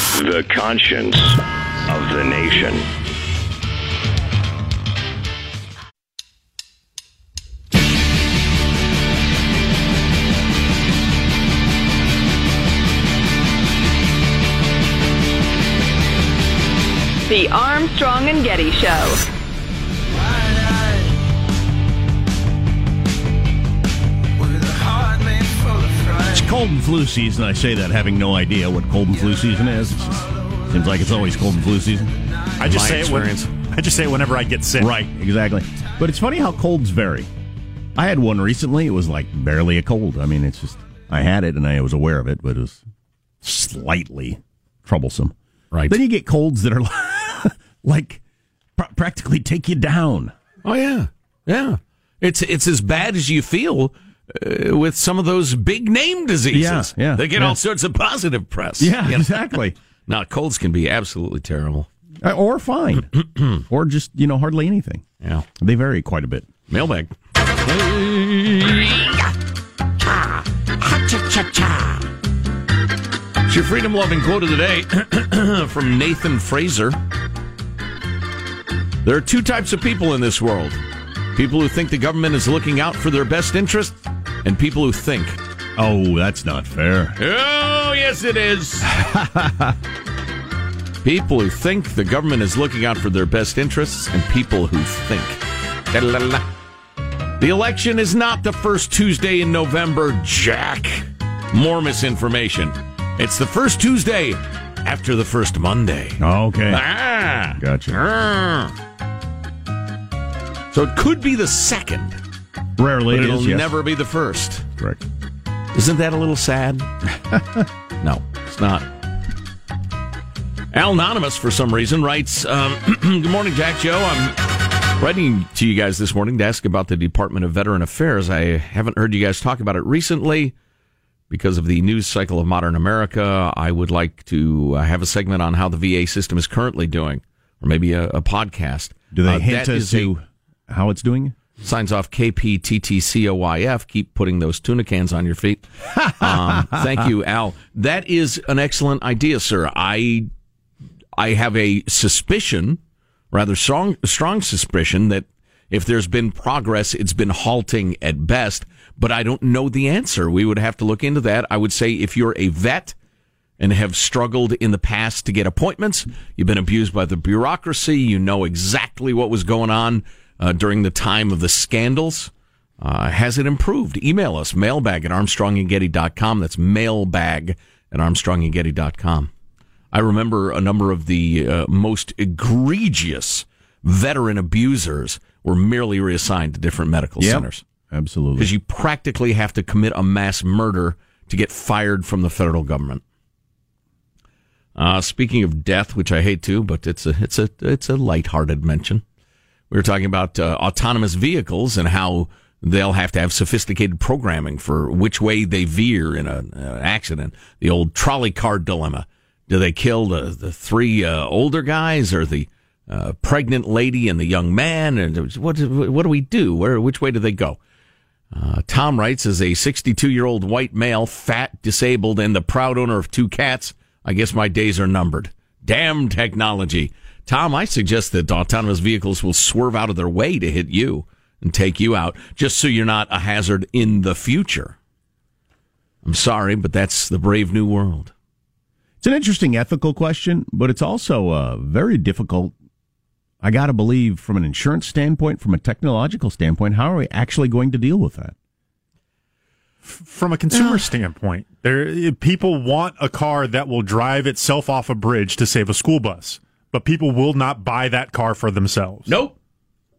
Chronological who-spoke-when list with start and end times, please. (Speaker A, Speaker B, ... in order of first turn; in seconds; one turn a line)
Speaker A: 0.1-1.4
Speaker A: 1.9-2.8
Speaker B: 17.3-19.2
Speaker C: 26.2-32.1
Speaker D: 32.6-35.0
Speaker E: 32.6-33.5
Speaker C: 34.8-37.3
Speaker C: 38.0-42.8
Speaker C: 43.4-45.3
Speaker E: 45.7-46.0
Speaker C: 45.9-48.2
Speaker C: 48.8-50.3
Speaker E: 50.6-61.9
Speaker C: 56.5-57.6
Speaker C: 58.8-59.7
Speaker C: 62.2-63.1
Speaker E: 63.1-63.6
Speaker C: 63.7-65.0
Speaker E: 65.2-65.5
Speaker C: 65.6-66.5
Speaker E: 66.7-69.3
Speaker E: 70.0-72.1
Speaker E: 73.5-77.0
Speaker E: 79.0-80.8
Speaker E: 81.3-85.4
Speaker C: 85.8-87.2
Speaker E: 87.2-88.9
Speaker C: 88.8-89.7
Speaker E: 91.0-95.4
Speaker E: 95.9-96.4
Speaker E: 97.4-108.7
Speaker C: 106.2-106.8
Speaker C: 107.6-108.0
Speaker E: 110.7-112.2
Speaker C: 112.8-113.7
Speaker E: 113.1-114.6
Speaker E: 115.7-116.9
Speaker C: 117.3-117.6
Speaker E: 118.0-118.8
Speaker E: 120.7-124.4
Speaker E: 125.0-130.5
Speaker E: 131.3-140.1
Speaker C: 139.1-141.3
Speaker E: 141.6-150.3
Speaker C: 146.1-146.8
Speaker E: 151.2-152.8
Speaker E: 153.3-162.9
Speaker E: 163.6-179.3
Speaker E: 179.9-187.6
Speaker C: 187.2-188.5
Speaker E: 188.4-193.0
Speaker E: 194.8-199.0
Speaker E: 199.7-217.6
Speaker E: 218.3-234.8
Speaker E: 236.0-238.1
Speaker C: 239.0-242.5
Speaker C: 243.4-248.3
Speaker D: 249.8-259.1
Speaker E: 250.5-250.8
Speaker E: 259.1-259.4